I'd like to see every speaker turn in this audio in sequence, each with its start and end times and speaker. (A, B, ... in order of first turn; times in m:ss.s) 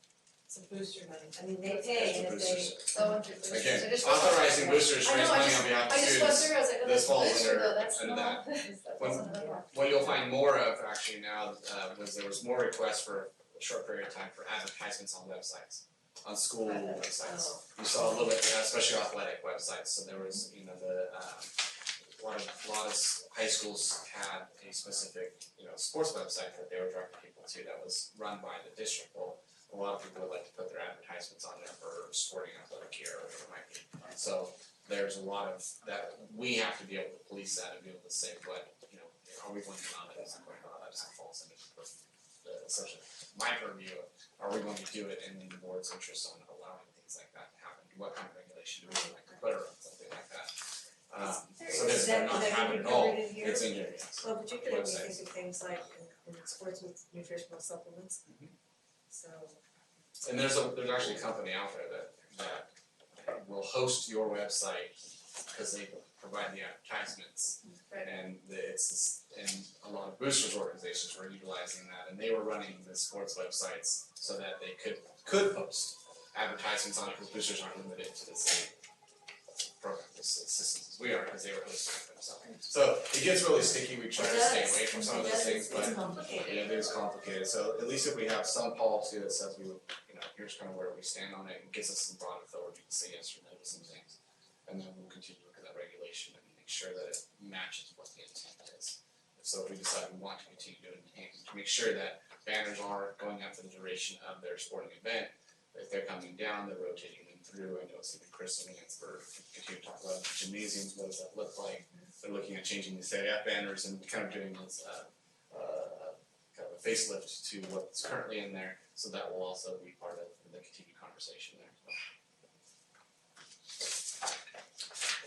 0:00.5-0:02.9 A
0:01.9-0:08.4 B
0:02.9-0:10.0 C
0:09.0-0:21.6 B
0:09.2-0:09.6 A
0:16.6-0:17.1 C
0:22.1-0:55.3 B
0:51.6-0:58.2 A
0:59.1-0:59.6 A
1:00.2-1:18.7 B
1:07.8-1:08.1 C
1:19.8-1:34.1 B
1:24.5-1:26.6 A
1:34.6-2:01.9 B